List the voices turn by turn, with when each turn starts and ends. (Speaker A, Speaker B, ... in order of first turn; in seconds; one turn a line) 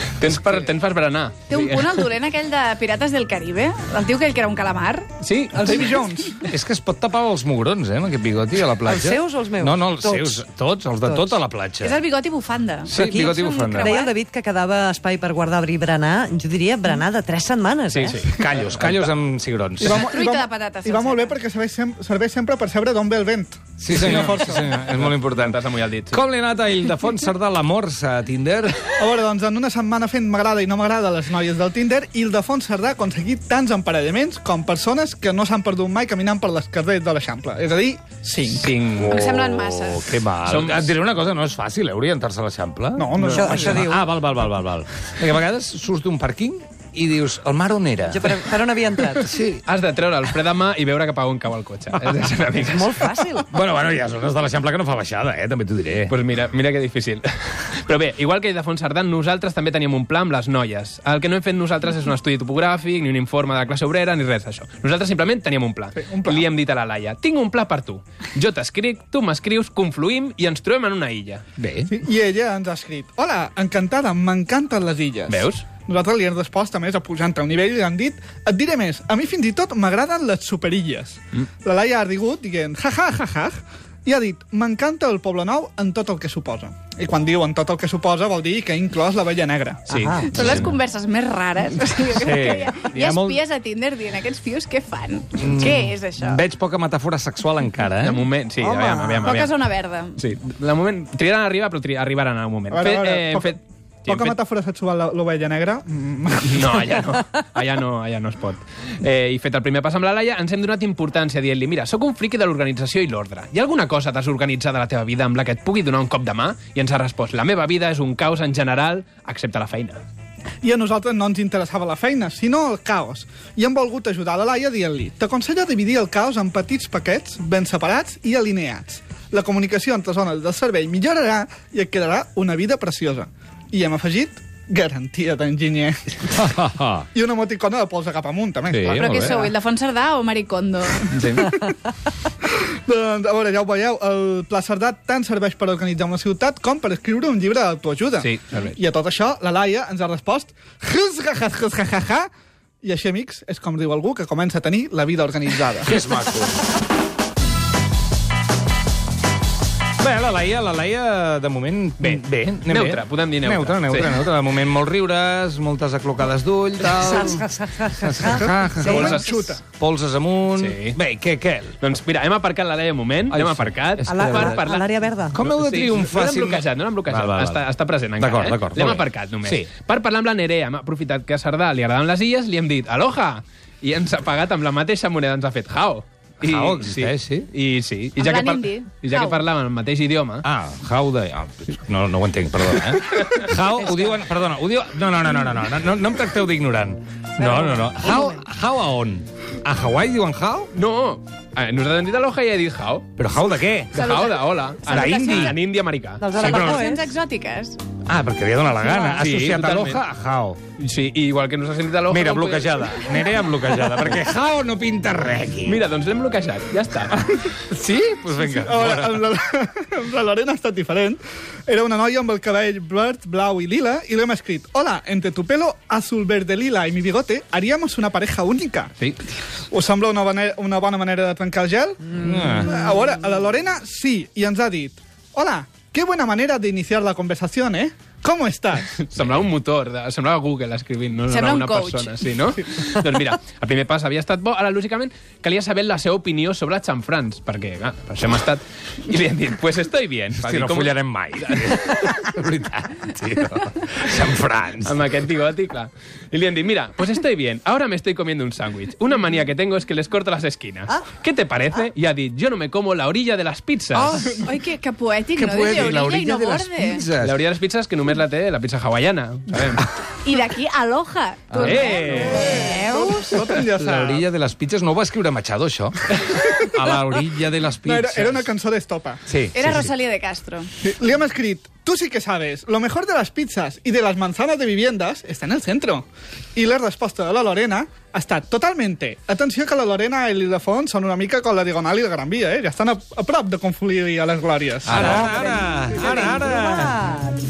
Speaker A: 0.2-2.0
Speaker B: 1.5-5.1
Speaker A: 5.2-6.0
Speaker C: 5.5-6.4
Speaker D: 6.4-11.9
Speaker E: 8.8-10.4
Speaker E: 11.0-11.4
Speaker B: 11.8-14.1
Speaker D: 12.8-13.9
Speaker E: 12.9-18.2
Speaker A: 17.9-19.1
Speaker D: 18.2-20.1
Speaker C: 19.8-24.8
Speaker B: 19.9-21.4
Speaker D: 23.8-28.8
Speaker A: 24.1-26.2
Speaker C: 29.0-38.7
Speaker A: 38.5-39.1
Speaker D: 38.8-48.5
Speaker B: 39.0-40.2
Speaker A: 40.4-41.0
Speaker C: 43.0-43.8
Speaker E: 43.3-44.0
Speaker E: 48.1-49.3
Speaker D: 49.1-49.6
Speaker A: 49.6-53.1
Speaker E: 52.6-53.5
Speaker D: 53.5-56.1
Speaker A: 56.1-71.4
Speaker C: 66.0-66.5
Speaker D: 71.6-71.9
Speaker C: 71.9-90.1
Speaker A: 75.3-75.6
Speaker A: 89.9-90.7
Speaker E: 89.9-90.3
Speaker B: 90.3-96.4
Speaker D: 92.1-93.4
Speaker D: 95.4-98.8
Speaker A: 98.0-99.5
Speaker B: 99.2-100.2
Speaker A: 100.2-104.4
Speaker C: 102.7-106.9
Speaker A: 106.4-120.0
Speaker C: 120.6-136.3
Speaker D: 136.3-137.1
Speaker C: 137.1-139.5
Speaker D: 138.7-139.4
Speaker B: 139.0-141.1
Speaker A: 141.1-141.5
Speaker C: 141.3-141.7
Speaker C: 142.8-152.3
Speaker A: 148.2-148.8
Speaker C: 152.8-156.0
Speaker D: 155.8-156.7
Speaker D: 160.0-171.8
Speaker A: 162.0-164.3
Speaker E: 167.0-169.1
Speaker C: 168.4-169.6
Speaker A: 168.8-169.5
Speaker A: 170.6-171.0
Speaker A: 171.8-190.4
Speaker D: 173.3-174.6
Speaker E: 174.1-175.4
Speaker D: 175.3-177.6
Speaker D: 178.2-179.7
Speaker D: 186.4-187.5
Speaker B: 188.2-189.4
Speaker D: 190.4-200.7
Speaker A: 200.7-203.1
Speaker D: 203.2-203.9
Speaker A: 203.9-206.2
Speaker B: 204.0-205.5
Speaker D: 204.8-205.6
Speaker E: 206.2-207.1
Speaker D: 206.4-206.8
Speaker B: 206.4-207.8
Speaker D: 208.1-210.6
Speaker A: 208.8-210.0
Speaker A: 210.8-213.0
Speaker D: 212.1-215.8
Speaker A: 215.6-217.2
Speaker D: 217.1-219.2
Speaker C: 218.5-228.9
Speaker C: 229.7-238.9
Speaker D: 232.1-232.7
Speaker A: 238.9-252.1
Speaker B: 241.3-242.2
Speaker D: 250.4-255.0
Speaker A: 254.8-264.3
Speaker D: 264.0-264.3
Speaker B: 264.3-267.0
Speaker D: 265.3-267.4
Speaker A: 267.2-269.9
Speaker B: 270.2-273.2
Speaker D: 271.5-278.5
Speaker A: 271.6-272.5
Speaker C: 272.0-274.2
Speaker C: 277.8-279.2
Speaker D: 279.3-279.9
Speaker B: 279.5-280.8
Speaker C: 280.8-295.2
Speaker A: 294.8-295.2
Speaker D: 294.9-297.1
Speaker E: 295.0-297.4